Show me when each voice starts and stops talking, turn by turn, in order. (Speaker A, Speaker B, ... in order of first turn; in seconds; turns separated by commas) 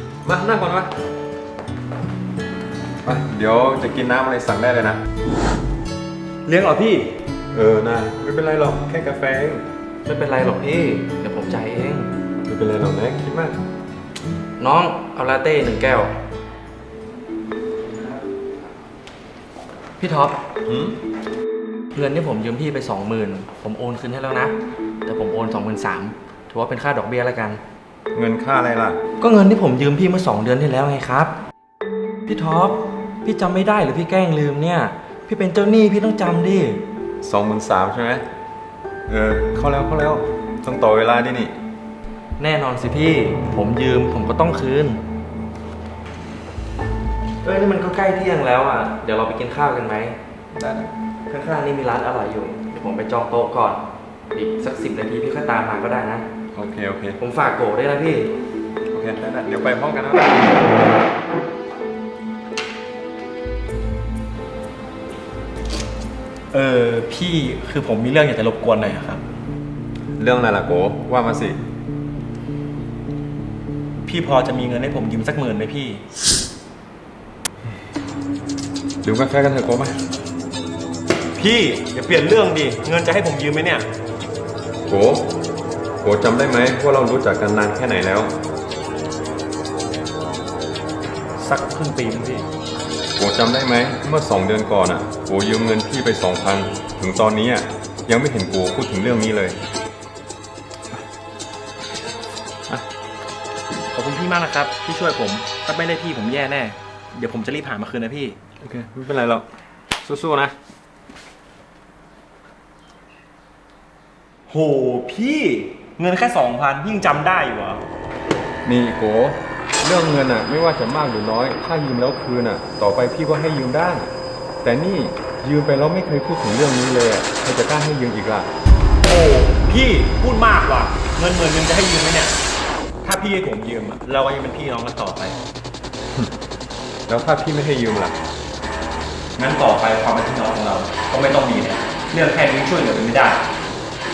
Speaker A: 0.2-0.9, Speaker A: 3.0-5.0, Speaker B: 6.5-7.1, Speaker A: 7.5-9.6, Speaker C: 10.0-12.1, Speaker A: 12.4-13.6, Speaker C: 14.6-16.1, Speaker C: 20.0-20.4, Speaker A: 20.6-21.0, Speaker C: 21.9-27.6, Speaker A: 28.1-29.0, Speaker C: 29.2-31.3, Speaker C: 32.2-36.8, Speaker A: 37.2-38.2, Speaker A: 39.1-41.5, Speaker C: 42.4-45.0, Speaker C: 47.4-50.2, Speaker A: 50.5-50.9, Speaker C: 51.3-56.2, Speaker A: 56.5-57.2, Speaker C: 57.2-58.3, Speaker A: 58.9-60.5, Speaker B: 66.5-69.2, Speaker A: 70.2-71.6, Speaker B: 74.0-76.0, Speaker A: 79.0-80.0, Speaker B: 81.3-83.9, Speaker A: 84.9-85.3, Speaker A: 86.0-88.3, Speaker B: 91.4-92.5, Speaker A: 93.2-99.6, Speaker B: 103.9-108.4, Speaker A: 108.6-110.5, Speaker B: 114.5-117.8, Speaker A: 118.6-124.1, Speaker A: 124.6-128.5, Speaker B: 129.0-132.3, Speaker B: 133.0-135.4, Speaker A: 137.1-138.2, Speaker B: 139.4-143.4